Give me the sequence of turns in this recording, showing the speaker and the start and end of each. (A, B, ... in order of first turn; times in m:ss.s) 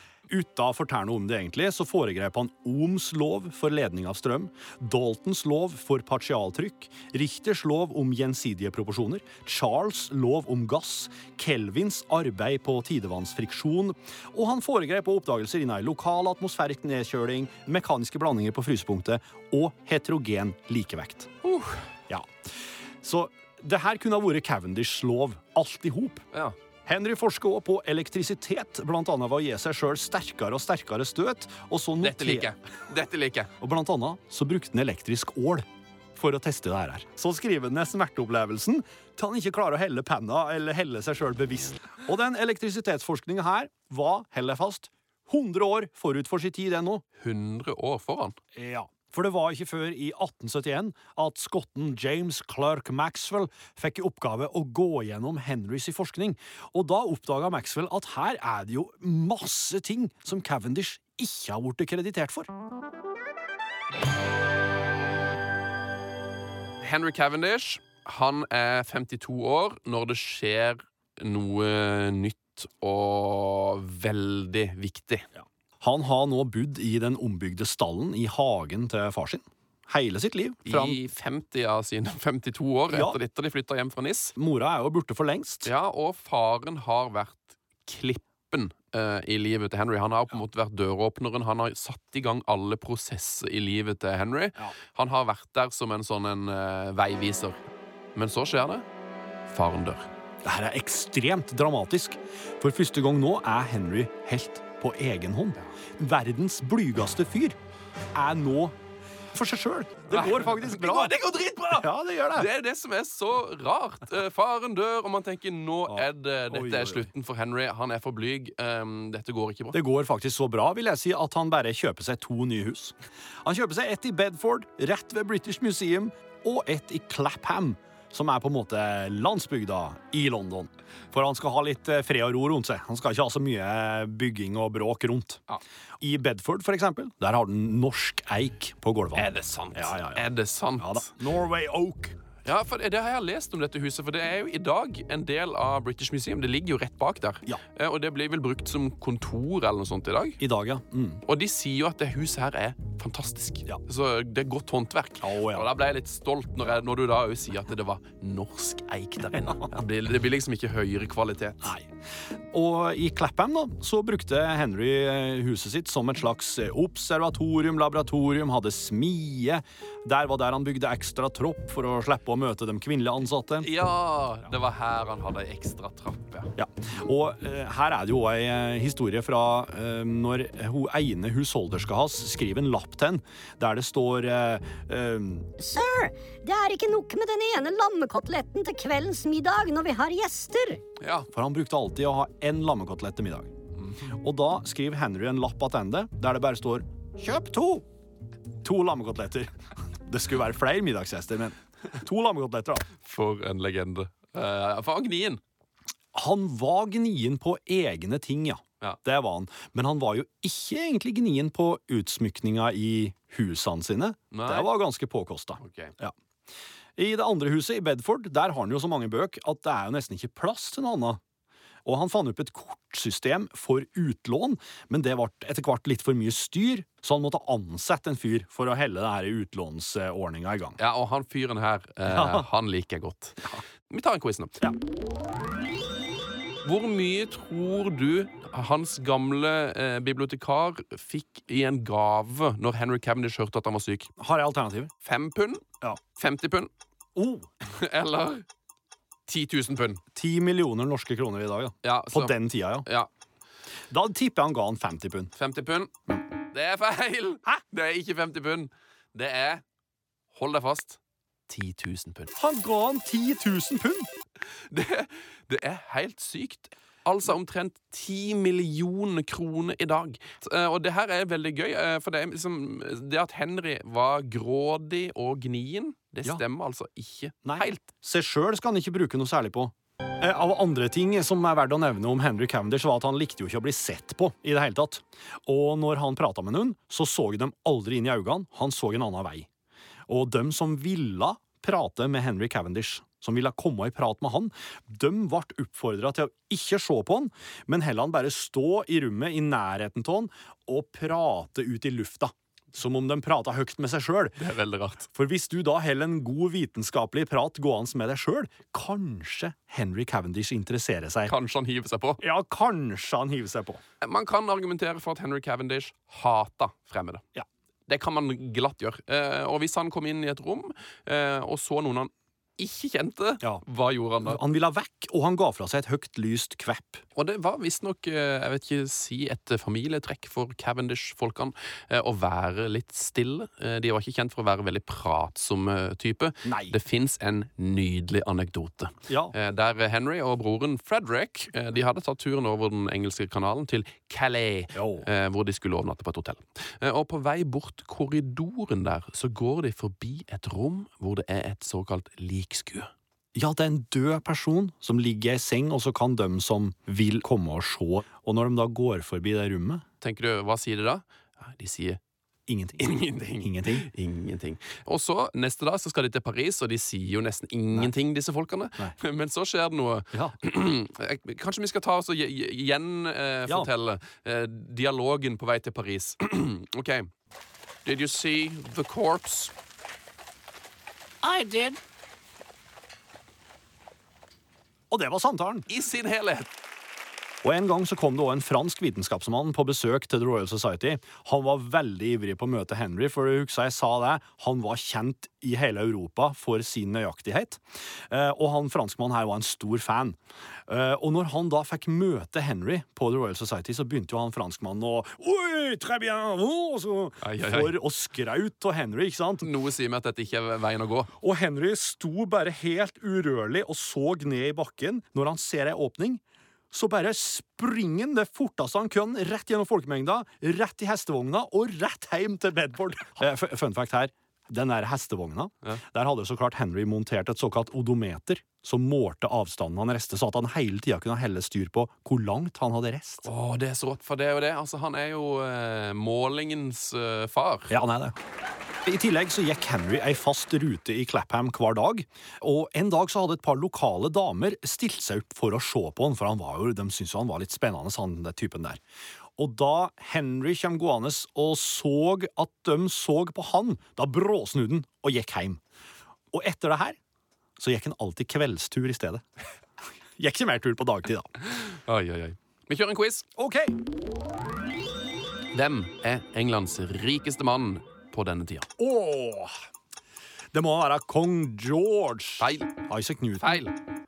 0:00.3-0:21.3 A
0:21.4-0:21.8 B
0:22.1-0:22.5 A
0:23.0-0:26.2 A
0:26.9-0:32.5 A
0:32.0-0:33.5 B
0:33.6-0:47.0 A
0:47.2-0:48.4 B
0:48.6-1:02.5 A
1:06.8-1:15.3 B
1:15.4-1:21.0 A
1:20.7-1:24.3 B
1:22.9-1:23.2 A
1:24.4-1:25.7 A
1:25.6-1:37.6 B
1:38.2-1:38.9 B
1:39.5-1:40.1 B
1:40.4-1:47.6 A
1:48.1-1:48.8 A
1:49.3-1:51.1 A
1:50.1-1:59.8 B
1:51.8-1:52.5 A
1:55.9-1:57.1 A
1:59.7-2:15.4 A
2:16.0-2:22.2 A
2:19.2-2:21.1 B
2:22.4-2:30.4 B
2:30.4-2:31.2 A
2:31.3-2:41.7 B
2:35.2-2:35.7 A
2:41.6-2:41.9 A
2:42.5-2:53.7 A
2:53.6-2:56.5 B
2:56.6-3:05.5 A
3:05.6-3:10.8 C
3:11.0-3:11.3 B
3:11.3-3:13.5 A
3:14.0-3:17.9 A
3:18.6-3:22.9 A
3:23.0-3:25.4 B
3:26.1-3:36.1 A
3:34.3-3:34.7 B
3:35.6-3:35.9 B
3:37.0-3:41.2 A
3:41.8-3:50.8 A
3:50.8-3:54.6 B
3:52.1-3:52.5 A
3:56.6-4:04.1 B
4:04.2-4:04.9 A
4:05.0-4:05.6 B
4:06.2-4:06.7 B
4:07.2-4:07.5 A
4:07.7-4:08.5 B
4:09.3-4:10.0 B
4:10.2-4:12.9 A
4:11.8-4:13.1 B
4:13.9-4:15.3 A
4:15.4-4:15.9 B
4:16.5-4:19.6 B
4:20.3-4:22.3 B
4:22.4-4:24.1 A
4:24.7-4:37.9 B
4:37.4-4:49.5 A
4:50.1-5:04.4 A
5:04.4-5:05.1 B
5:05.1-5:11.3 A
5:11.3-5:12.2 B
5:12.2-5:13.8 A
5:14.0-5:17.2 B
5:17.9-5:24.4 B
5:24.2-5:27.0 A
5:27.2-5:52.9 B
5:36.4-5:36.8 A
5:39.1-5:39.4 A
5:44.7-5:45.1 A
5:53.4-5:59.8 A
6:00.0-6:02.0 B
6:02.5-6:03.9 A
6:02.8-6:17.1 B
6:17.8-6:19.5 B
6:21.2-6:21.8 A
6:24.9-6:25.7 A
6:25.7-6:26.5 B
6:27.4-6:49.5 A
6:47.2-6:47.8 B
6:49.4-6:51.1 B
6:51.2-7:13.3 A
7:13.2-7:17.8 B
7:17.7-7:18.2 A
7:18.8-7:28.8 A
7:29.4-7:35.6 A
7:36.3-7:37.0 A
7:37.6-7:39.2 A
7:40.2-7:41.3 A
7:41.6-7:43.3 B
7:43.4-7:43.8 A
7:45.5-7:48.7 B
7:48.8-7:49.5 A
7:50.5-7:53.7 A
7:52.4-7:52.8 B
7:53.4-7:53.8 B